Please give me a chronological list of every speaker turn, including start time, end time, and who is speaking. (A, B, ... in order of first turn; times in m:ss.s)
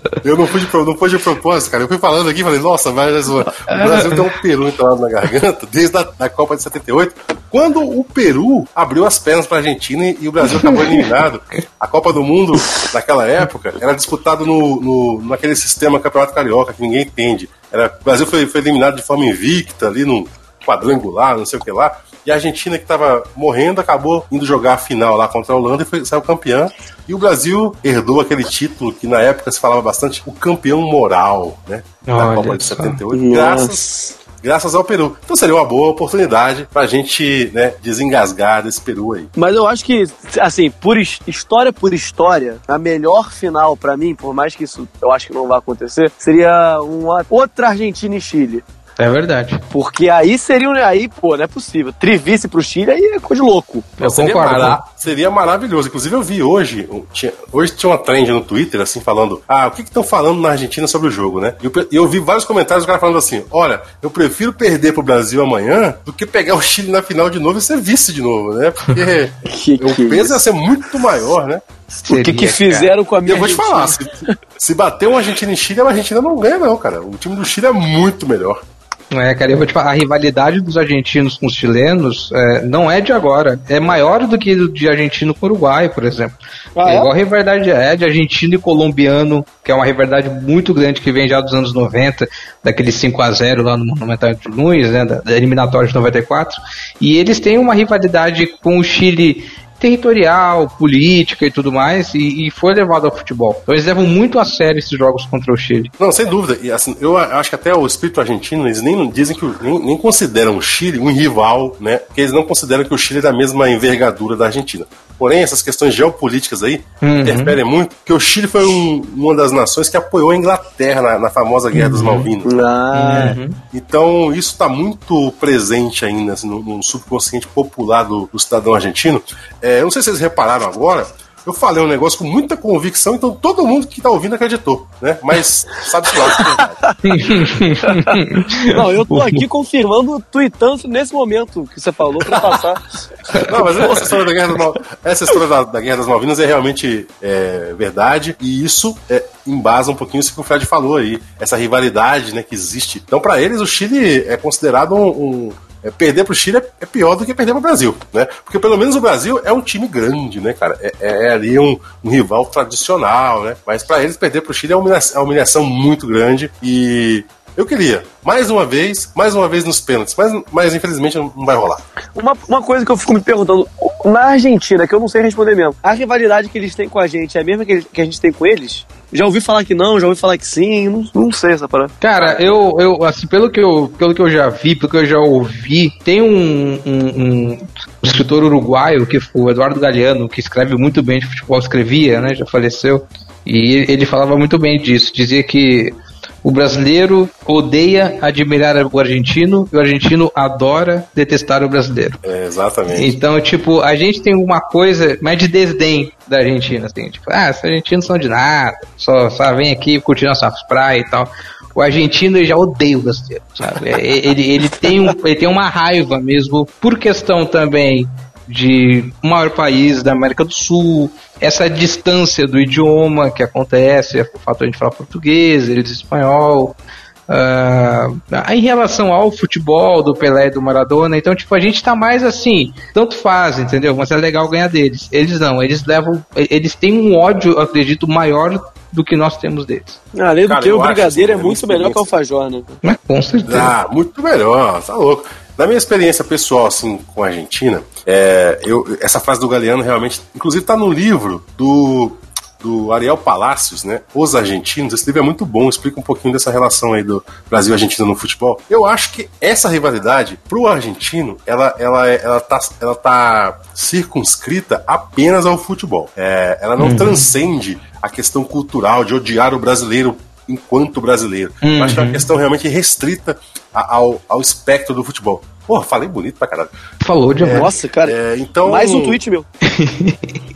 0:00.2-0:39.3 A
0:03.7-0:04.2 B
0:10.6-0:11.0 B
0:32.1-0:33.0 B
0:33.1-0:33.8 C
0:39.4-0:48.6 C
0:49.0-0:49.6 B
0:49.7-0:54.0 C
0:54.0-0:54.8 B
0:54.0-1:11.6 A
1:09.5-1:10.4 C
1:12.0-1:14.3 C
1:12.1-1:12.9 B
1:13.2-1:18.6 A
1:19.1-1:45.9 B
1:26.8-1:27.1 C
1:46.0-2:02.5 A
1:57.0-1:57.6 B
2:01.7-2:02.3 B
2:02.4-2:03.4 C
2:02.9-2:03.6 B
2:03.7-2:16.8 A
2:17.0-2:19.4 B
2:17.8-2:22.9 C
2:22.3-2:22.6 A
2:23.4-2:51.8 A
2:23.5-2:24.1 C
2:52.1-3:02.5 C
3:02.0-3:22.2 B
3:22.2-3:23.2 A
3:22.9-3:46.7 B
3:47.3-4:00.0 B
4:00.1-4:02.7 C
4:00.4-4:02.1 A
4:02.8-4:03.7 B
4:03.4-4:36.7 A
4:26.8-4:27.3 B
4:31.6-4:32.2 B
4:37.0-4:37.7 B
4:37.4-4:39.2 A
4:37.4-4:39.5 C
4:39.6-4:40.4 B